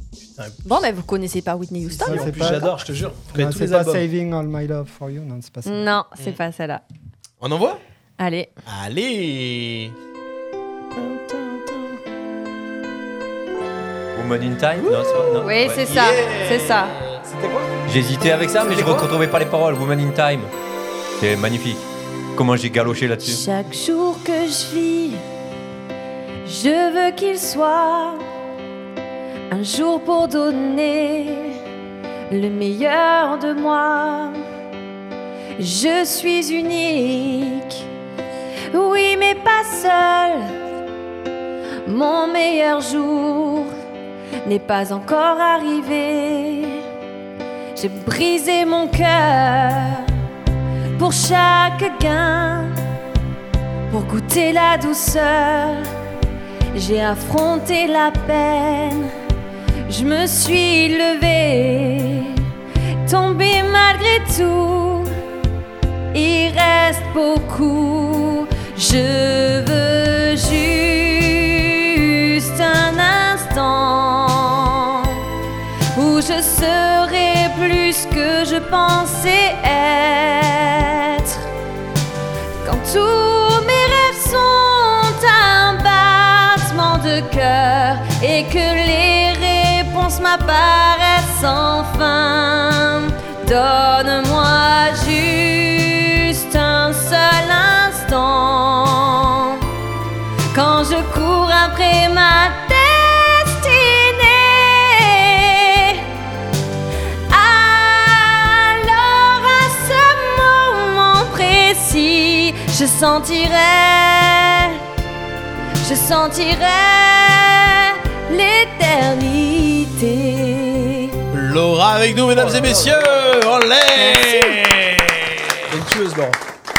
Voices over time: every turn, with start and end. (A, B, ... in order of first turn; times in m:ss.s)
0:00.6-0:02.6 A
0:01.9-0:04.0 B
0:02.0-0:02.7 C
0:03.3-0:05.9 C
0:05.6-0:06.8 A
0:07.4-0:07.8 D
0:08.2-0:08.5 A
0:08.7-0:09.9 D
0:11.0-0:12.0 B
0:14.1-0:15.9 E
0:14.8-0:15.3 B
0:15.4-0:17.0 A
0:15.7-0:17.2 D
0:17.2-0:17.7 B
0:17.8-0:20.5 E
0:18.6-0:19.0 B
0:21.2-0:23.4 E
0:23.2-0:25.2 A
0:26.4-0:28.2 A
0:29.5-0:31.6 A
0:32.3-0:34.4 A
0:35.6-0:37.9 A
0:38.7-0:40.5 A
0:41.8-0:43.7 A
0:44.4-0:46.8 A
0:47.8-0:50.1 A
0:51.0-0:52.8 A
0:53.9-0:55.8 A
0:56.7-0:59.1 A
0:59.9-1:02.4 A
1:03.0-1:05.1 A
1:06.1-1:15.2 A
1:15.9-1:21.4 A
1:22.6-1:39.6 A
1:40.5-1:46.0 A
1:47.3-1:54.8 A
1:55.8-2:01.1 A
2:01.3-2:05.7 D
2:02.3-2:03.6 B
2:04.0-2:04.6 A
2:05.7-2:06.4 B